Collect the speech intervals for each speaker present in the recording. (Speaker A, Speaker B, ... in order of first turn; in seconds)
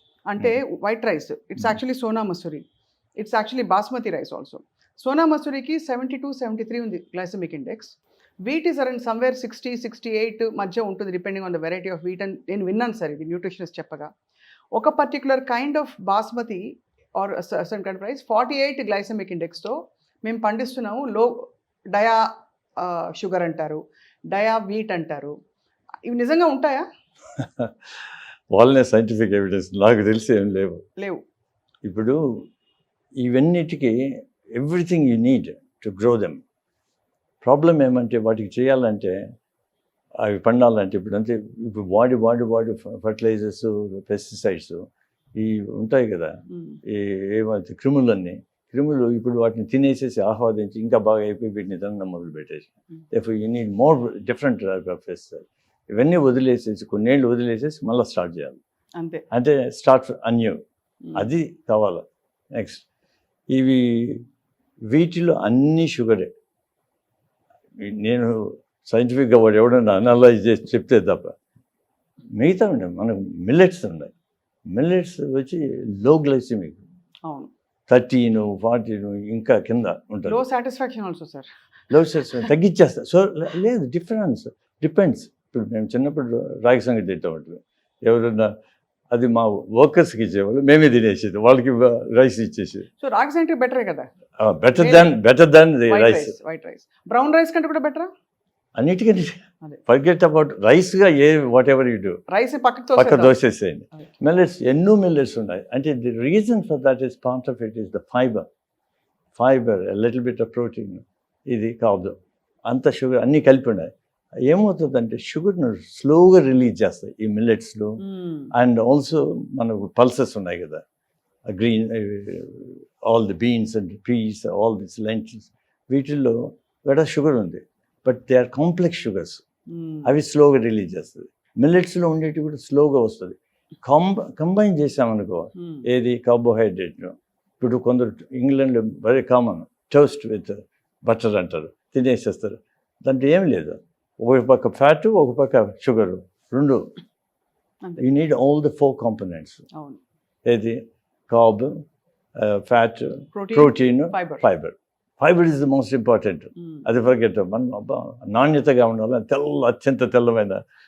Speaker A: 0.3-2.6, 3.2-14.1, 14.8-16.6, 17.2-22.2, 22.8-25.3, 26.1-26.9, 46.5-46.8, 59.0-59.2, 80.2-81.5, 93.0-94.1, 94.8-95.1, 95.9-98.1, 102.3-103.3, 118.0-118.5, 129.7-130.1, 135.6-135.8, 149.7-150.0, 153.3-154.4
Speaker B: 27.4-27.7, 28.5-30.8, 31.8-32.5, 33.2-36.4, 37.4-39.2, 40.2-44.8, 45.4-58.6, 59.3-60.6, 61.1-62.8, 63.5-64.2, 64.9-66.3, 67.8-71.3, 72.3-74.1, 74.7-76.8, 77.9-80.4, 81.9-88.5, 89.1-92.9, 94.4-96.3, 98.8-102.2, 103.0-108.5, 109.4-113.9, 114.4-120.8, 121.5-129.4, 130.0-146.9, 148.0-149.7, 150.4-151.8, 152.3-160.6